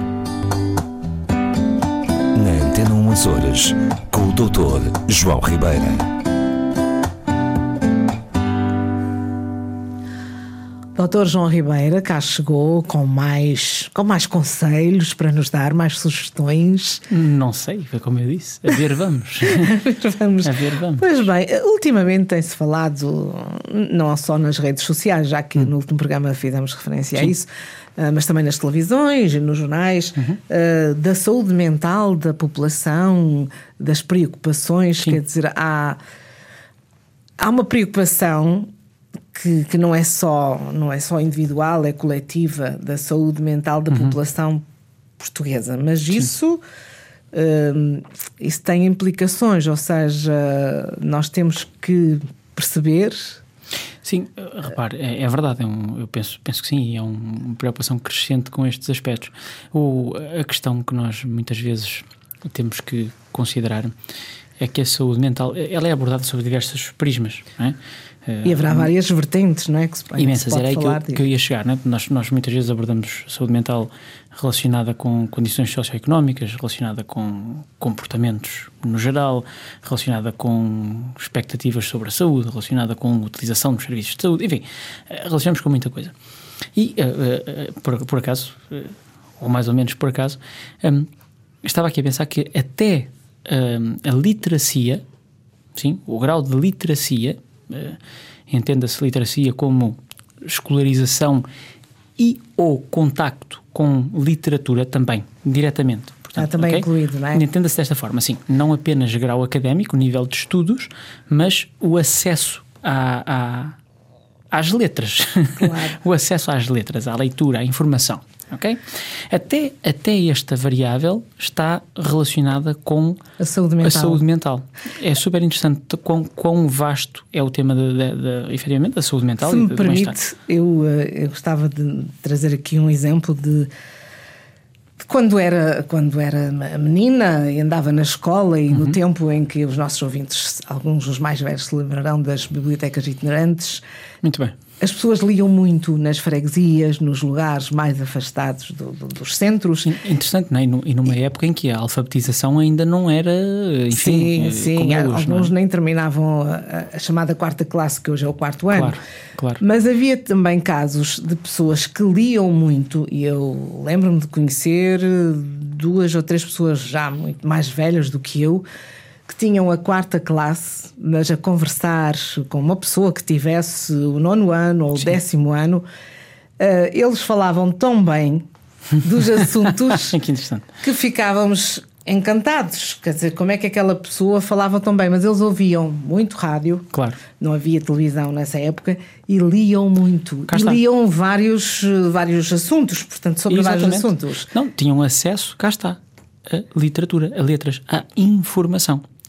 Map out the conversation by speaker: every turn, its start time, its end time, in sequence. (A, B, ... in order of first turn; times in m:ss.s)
0:02.3-0:06.1 A
0:11.0-0:17.0 B
0:17.1-0:19.7 C
0:19.4-0:36.0 B
0:20.4-0:21.2 C
0:37.4-0:38.7 B
0:39.3-0:44.6 B
0:43.9-0:44.2 C
0:45.2-0:46.6 B
0:47.3-0:53.4 B
0:54.0-1:03.9 C
1:04.6-1:08.9 C
1:08.4-1:11.2 B
1:10.1-1:26.1 C
1:26.7-1:31.1 C
1:31.6-1:35.0 C
1:35.7-1:41.4 C
1:42.2-1:53.8 C
1:46.4-1:47.4 B
1:54.5-2:03.2 C
1:55.6-1:56.0 B
2:03.4-2:04.2 B
2:03.8-2:10.2 C
2:09.4-2:13.7 B
2:15.0-2:23.8 B
2:18.7-2:19.0 C
2:24.2-2:24.5 C
2:24.8-2:29.9 B
2:29.8-2:35.5 C
2:33.9-2:39.0 B
2:38.7-2:39.6 C
2:39.6-2:48.6 B
2:49.3-2:55.8 B
2:56.6-2:58.4 B
2:59.0-3:00.2 B
2:59.4-3:00.7 C
3:00.8-3:06.9 B
3:06.9-3:07.2 C
3:07.4-3:14.5 B
3:10.5-3:10.8 C
3:13.5-3:19.0 C